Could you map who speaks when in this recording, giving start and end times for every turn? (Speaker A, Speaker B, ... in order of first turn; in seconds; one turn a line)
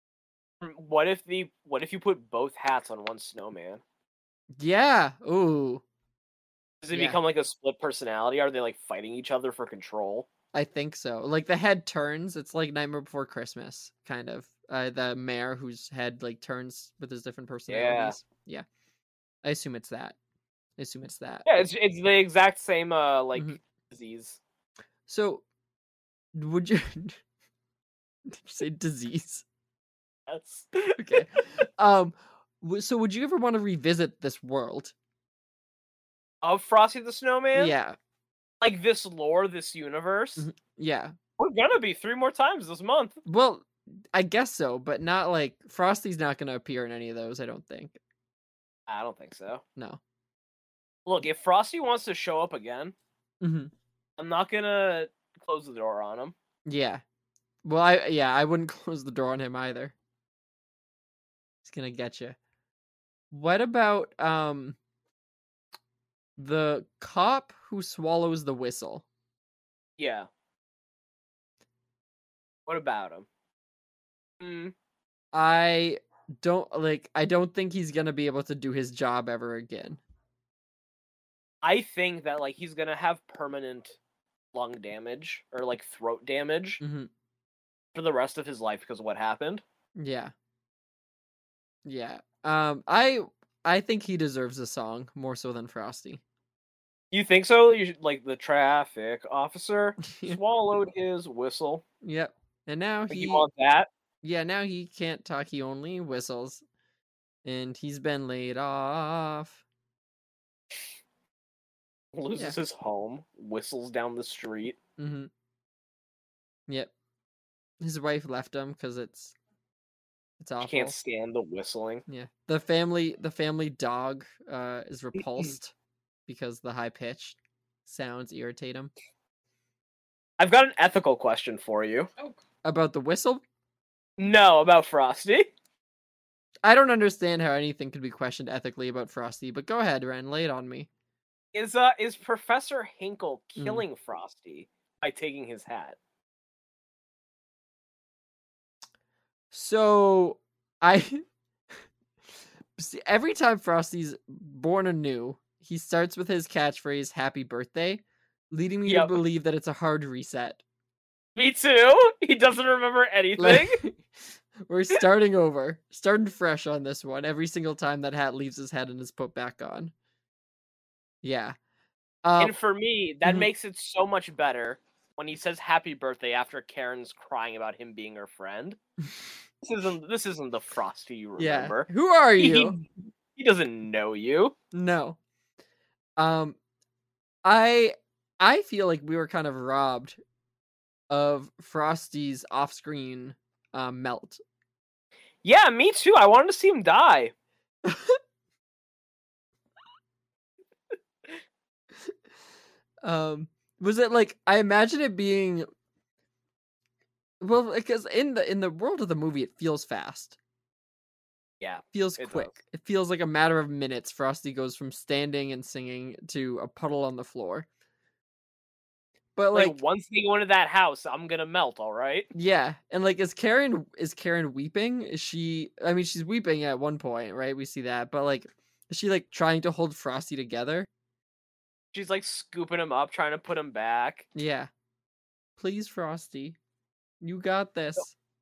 Speaker A: 0.6-3.8
Speaker B: 4.6-5.8
Speaker A: 6.8-10.3
Speaker B: 6.9-7.2
Speaker B: 10.5-18.6
Speaker A: 17.7-18.2
Speaker B: 19.4-20.1
Speaker B: 20.8-21.6
Speaker A: 21.4-24.4
Speaker B: 25.1-25.4
Speaker B: 26.3-27.2
Speaker B: 28.3-29.4
Speaker A: 30.3-31.6
Speaker B: 31.0-34.9
Speaker A: 36.4-37.7
Speaker B: 37.5-38.0
Speaker A: 38.6-40.5
Speaker B: 40.4-41.1
Speaker A: 41.4-43.2
Speaker B: 43.2-48.0
Speaker A: 48.9-49.6
Speaker A: 51.0-52.9
Speaker B: 53.4-53.7
Speaker A: 54.2-56.3
Speaker B: 56.6-57.0
Speaker B: 57.6-59.9
Speaker B: 61.6-62.4
Speaker B: 63.3-64.8
Speaker B: 66.4-69.0
Speaker A: 70.0-70.3
Speaker A: 72.7-73.3
Speaker A: 74.4-74.7
Speaker B: 75.3-80.0
Speaker A: 81.6-84.0
Speaker A: 84.5-86.8
Speaker B: 86.8-87.1
Speaker A: 87.9-89.6
Speaker B: 90.0-90.3
Speaker B: 91.8-96.2
Speaker A: 97.1-101.8
Speaker B: 100.1-100.4
Speaker B: 102.0-103.5
Speaker A: 103.1-103.9
Speaker B: 104.2-106.6
Speaker B: 107.4-109.6
Speaker A: 112.1-114.8
Speaker B: 115.0-115.3
Speaker B: 117.8-119.3
Speaker B: 120.4-120.9
Speaker A: 120.6-122.0
Speaker B: 122.1-125.7
Speaker B: 126.3-128.9
Speaker A: 130.4-132.1
Speaker B: 132.6-133.4
Speaker A: 134.2-135.5
Speaker B: 136.6-140.9
Speaker A: 141.5-146.0
Speaker B: 143.6-143.8
Speaker B: 149.5-151.2
Speaker B: 152.8-160.6
Speaker A: 158.8-159.2
Speaker A: 161.3-163.8
Speaker B: 163.4-164.1
Speaker B: 164.6-169.9
Speaker B: 171.2-171.6
Speaker B: 172.2-172.5
Speaker A: 172.4-178.8
Speaker A: 179.6-184.5
Speaker B: 181.4-182.8
Speaker B: 184.7-185.2
Speaker B: 186.2-186.6
Speaker B: 187.4-190.2
Speaker B: 191.1-194.4
Speaker A: 195.4-197.3
Speaker B: 197.8-198.2
Speaker B: 203.0-205.7
Speaker B: 207.4-210.4
Speaker A: 211.6-212.5
Speaker B: 211.9-217.7
Speaker B: 219.3-219.8
Speaker A: 219.5-222.3
Speaker B: 222.3-230.9
Speaker A: 231.9-234.2
Speaker B: 234.3-234.7
Speaker B: 235.6-236.6
Speaker B: 237.2-238.1